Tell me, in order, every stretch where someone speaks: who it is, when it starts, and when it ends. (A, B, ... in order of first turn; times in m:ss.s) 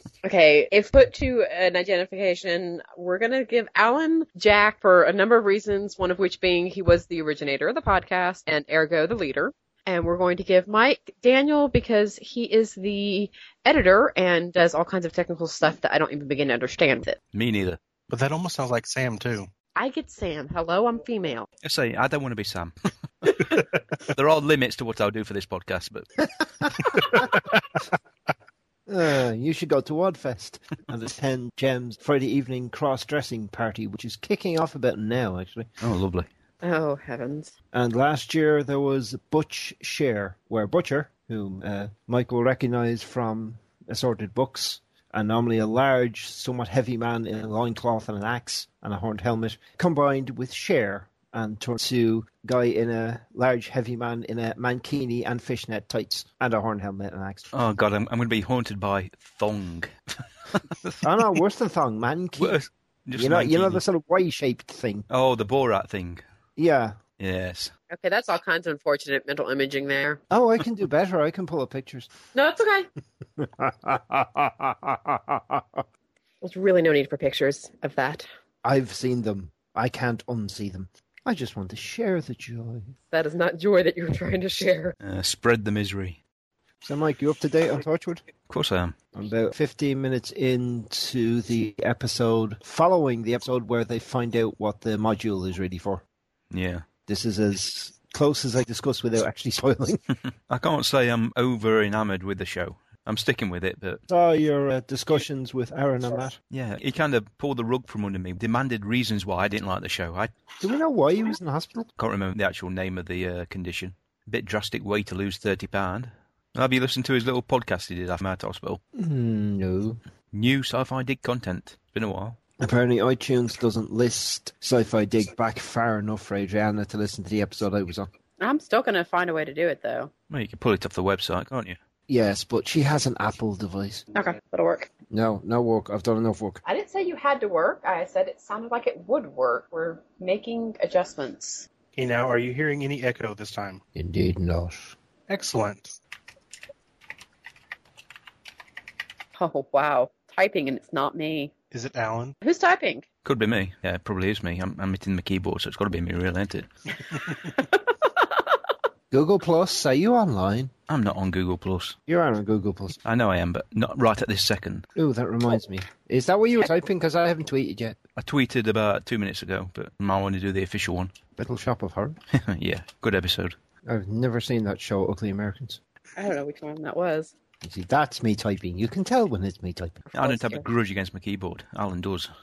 0:00.2-0:17.2 A
0:17.3-0:17.8 B
0:18.1-0:19.5 C
0:19.7-0:21.5 A
0:21.6-0:22.7 B
0:24.1-0:26.1 B
0:28.9-0:35.7 D
0:35.8-0:36.3 B
0:36.6-0:37.5 A
0:37.7-0:57.5 D
0:57.5-0:59.9 B
1:00.6-1:01.0 B
1:01.0-1:05.1 D
1:02.4-1:03.8 B
1:05.1-1:06.2 B
1:06.6-1:07.0 D
1:07.2-1:07.7 B
1:07.9-1:10.2 A
1:10.3-1:12.1 D
1:12.3-1:12.9 A
1:13.4-1:15.8 D
1:16.4-1:18.3 A
1:18.6-1:22.9 D
1:23.1-1:24.9 A
1:25.0-1:26.2 B
1:26.8-1:28.2 D
1:28.5-1:29.0 B
1:29.1-1:36.0 D
1:36.5-1:36.8 B
1:37.1-1:40.0 D
1:40.5-1:44.0 B
1:44.1-1:46.4 D
1:46.5-1:50.3 B
1:50.6-1:51.9 D
1:52.0-1:58.8 B
1:58.9-2:00.0 D
2:00.3-2:02.4 B
2:02.6-2:08.1 D
2:08.4-2:10.1 A
2:10.3-2:11.8 B
2:12.1-2:14.0 D
2:14.1-2:14.9 A
2:15.1-2:16.6 D
2:16.6-2:21.7 A
2:21.9-2:23.8 C
2:23.9-2:24.9 D
2:25.3-2:26.0 C
2:29.3-2:31.5 A
2:31.7-2:32.4 C
2:32.4-2:33.0 A
2:33.2-2:36.7 B
2:39.1-2:40.7 D
2:40.9-2:42.0 B
2:42.1-2:43.0 D
2:43.0-2:44.8 B
2:44.9-2:48.0 D
2:48.2-2:51.1 B
2:51.4-2:52.2 D
2:52.3-2:53.6 B
2:53.8-2:55.8 D
2:56.2-2:57.3 A
2:57.6-3:00.0 D
3:00.0-3:00.6 A
3:00.1-3:02.3 B